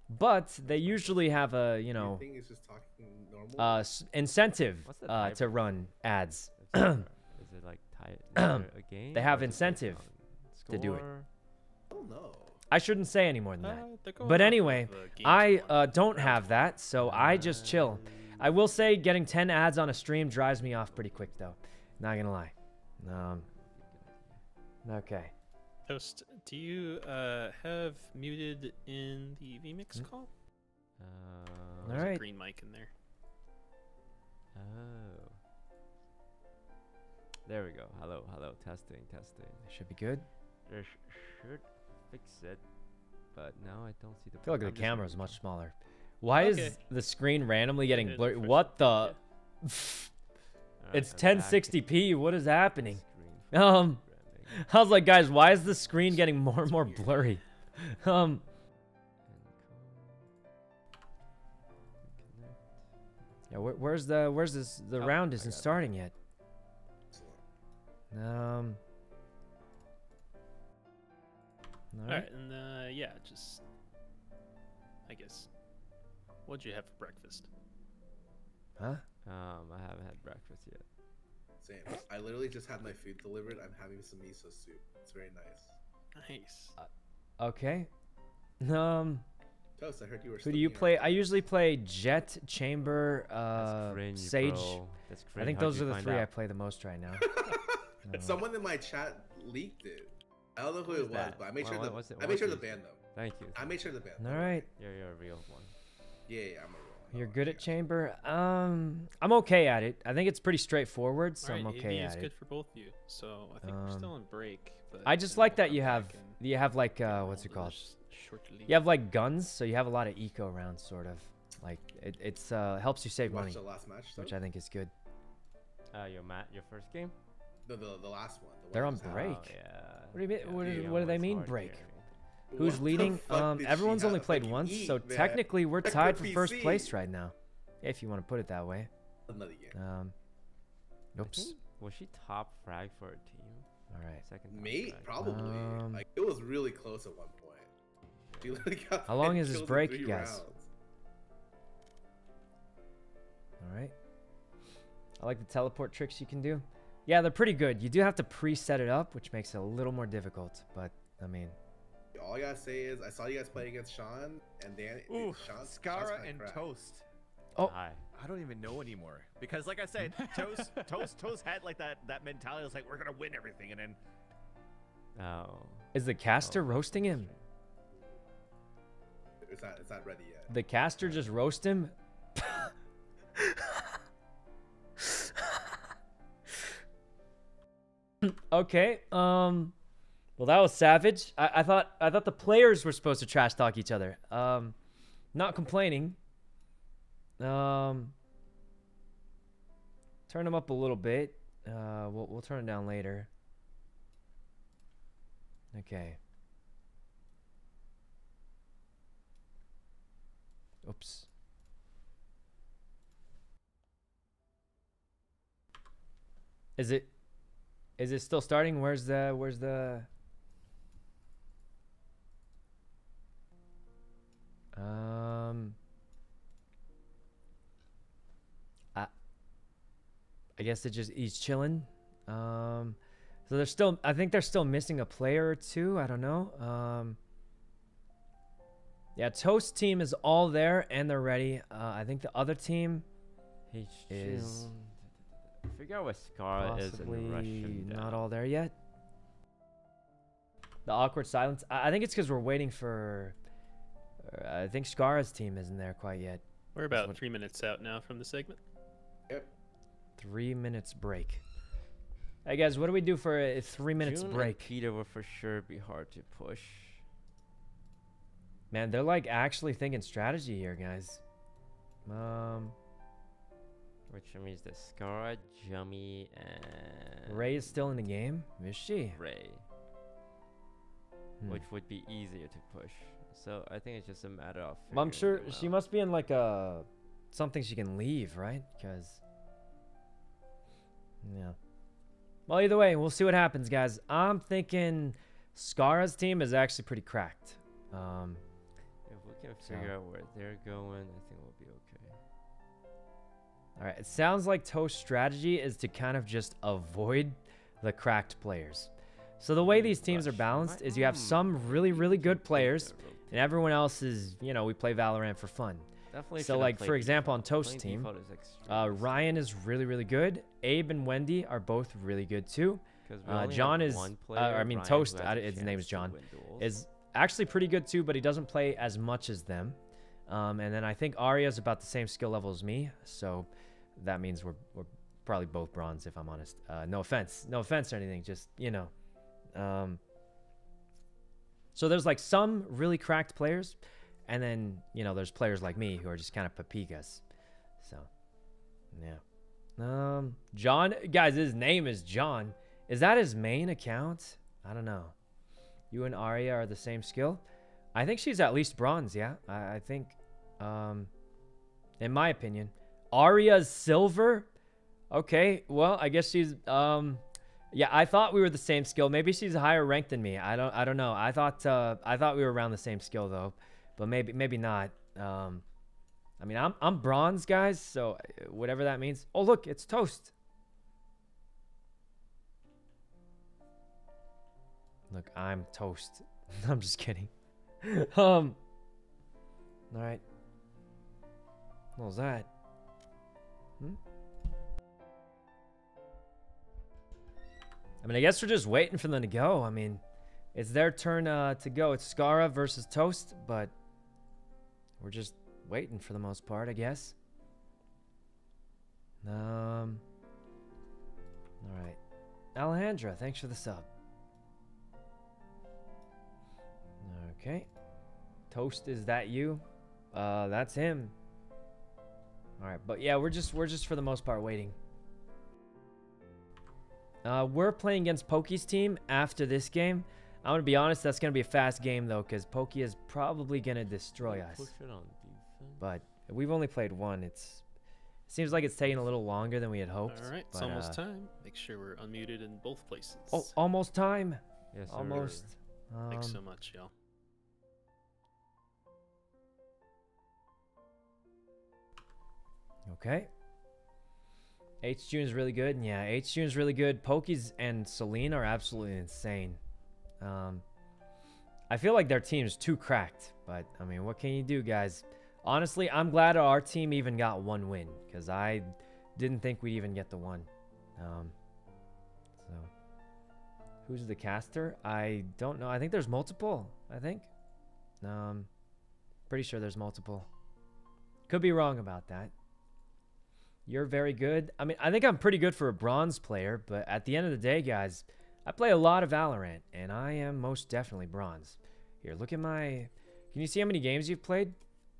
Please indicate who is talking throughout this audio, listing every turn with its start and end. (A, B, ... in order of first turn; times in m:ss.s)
0:00.1-0:02.2 A
0:00.6-0:01.3 B
0:02.0-0:03.8 C
0:03.6-0:07.0 A
0:04.8-0:05.7 B
0:06.6-0:11.3 B
0:08.4-0:10.0 A
0:10.7-0:11.0 A
0:11.9-0:12.6 C
0:12.7-0:23.4 A
0:13.6-0:16.6 D
0:17.0-0:18.5 B
0:20.7-0:21.3 B
0:23.4-0:24.4 B
0:24.8-0:25.3 A
0:25.9-0:30.3 D
0:31.0-0:32.1 B
0:31.8-0:32.2 A
0:31.9-0:32.9 D
0:34.5-0:35.4 B
0:37.4-0:39.6 B
0:39.6-0:40.2 A
0:40.7-0:42.6 B
0:43.3-0:45.4 B
0:44.4-0:50.1 A
0:46.4-0:46.8 D
0:47.8-0:49.2 D
0:50.8-0:52.1 B
0:50.9-0:58.4 A
0:52.6-0:54.6 B
0:59.2-1:00.3 B
1:02.0-1:02.7 B
1:03.5-1:06.1 A
1:05.0-1:06.0 B
1:07.1-1:07.4 C
1:08.1-1:08.8 A
1:11.9-1:12.3 A
1:12.1-1:13.6 D
1:15.1-1:15.5 D
1:16.4-1:17.5 D
1:18.8-1:19.0 A
1:19.2-1:20.8 B
1:21.6-1:25.8 C
1:26.1-1:26.7 D
1:27.4-1:27.9 A
1:28.6-1:29.2 A
1:29.8-1:31.4 C
1:30.4-1:34.8 A
1:33.5-1:36.3 B
1:35.4-1:37.3 A
1:37.2-1:44.7 C
1:38.0-1:38.4 A
1:40.8-1:43.8 B
1:44.2-1:44.6 A
1:44.7-1:45.7 B
1:46.3-1:47.7 C
1:47.1-1:52.3 A
1:51.4-1:56.4 D
1:53.6-1:54.1 A
1:55.0-1:57.8 A
1:57.0-1:58.8 D
1:58.7-2:03.6 A
2:03.2-2:04.3 C
2:04.2-2:04.9 A
2:05.9-2:07.1 B
2:07.6-2:09.4 C
2:08.7-2:09.5 A
2:09.0-2:12.1 B
2:10.1-2:11.8 A
2:12.5-2:16.9 C
2:12.6-2:18.9 A
2:19.3-2:19.8 C
2:19.7-2:20.1 A
2:21.1-2:21.5 A
2:21.2-2:23.7 B
2:23.9-2:24.2 A
2:24.2-2:25.3 B
2:24.5-2:27.7 C
2:25.2-2:26.0 A
2:28.1-2:28.7 B
2:28.4-2:30.7 C
2:29.0-2:30.4 A
2:33.6-2:33.9 A
2:35.2-2:41.6 A
2:42.1-2:46.7 C
2:45.1-2:47.0 E
2:47.6-2:48.0 B
2:48.1-2:54.0 E
2:55.2-2:57.4 B
2:55.9-2:57.3 A
2:59.4-3:00.5 C
3:00.5-3:02.7 A
3:08.3-3:09.7 A
3:10.4-3:14.7 A
3:15.3-3:16.2 A
3:17.4-3:18.1 A
3:20.3-3:23.3 A
3:25.7-3:26.2 A
3:30.8-3:31.3 A
3:36.8-3:37.1 A
3:38.0-3:40.1 A
3:44.7-3:45.8 A
3:50.6-3:57.2 A
3:59.2-4:03.0 A
4:03.7-4:05.1 B
4:04.1-4:04.7 A
4:05.6-4:08.3 B
4:06.6-4:08.7 A
4:10.8-4:13.3 A
4:14.2-4:17.2 A
4:16.7-4:18.6 D
4:20.2-4:21.4 A
4:22.4-4:24.7 A
4:23.9-4:27.0 B
4:28.7-4:31.2 A
4:32.1-4:32.7 A
4:34.1-4:38.0 B
4:37.3-4:39.2 A
4:39.1-4:39.6 B
4:41.5-4:45.8 B
4:44.9-4:49.2 A
4:51.2-4:51.6 A
4:52.5-4:58.4 A
4:59.0-5:02.2 B
4:59.6-4:59.9 A
5:03.8-5:18.1 A
5:09.6-5:13.5 B
5:16.1-5:19.2 B
5:18.7-5:38.9 A
5:23.0-5:26.7 B
5:39.5-5:40.0 A
5:41.7-5:47.2 A
5:47.8-5:48.1 A
5:48.9-5:49.2 A
5:49.8-5:55.1 A
5:55.9-5:57.4 A
5:57.9-6:01.1 A
6:02.0-6:04.5 A
6:05.1-6:15.6 A
6:16.4-6:20.3 A
6:25.1-6:27.3 A
6:27.8-6:28.6 A
6:29.9-6:30.2 A
6:32.0-6:32.5 A
6:38.0-6:40.0 A
6:40.5-6:43.7 A
6:45.0-6:47.1 A
6:49.2-6:50.0 A
6:51.6-6:52.0 A
6:52.5-6:53.9 A
6:57.0-6:57.7 A
6:58.5-7:01.1 A
7:02.6-7:04.8 A
7:07.2-7:14.7 A
7:14.2-7:15.9 B
7:15.8-7:17.6 A
7:18.3-7:21.0 A
7:20.0-7:23.5 D
7:23.3-7:26.4 A
7:24.7-7:25.5 B
7:26.1-7:26.9 D
7:32.9-7:33.3 A
7:34.8-7:39.6 A
7:40.2-7:40.6 A
7:41.7-7:51.3 A
7:52.4-7:52.7 A
7:53.8-7:57.3 A
7:58.0-7:58.5 A
7:59.3-8:00.3 A
8:01.3-8:02.3 A
8:03.7-8:14.6 A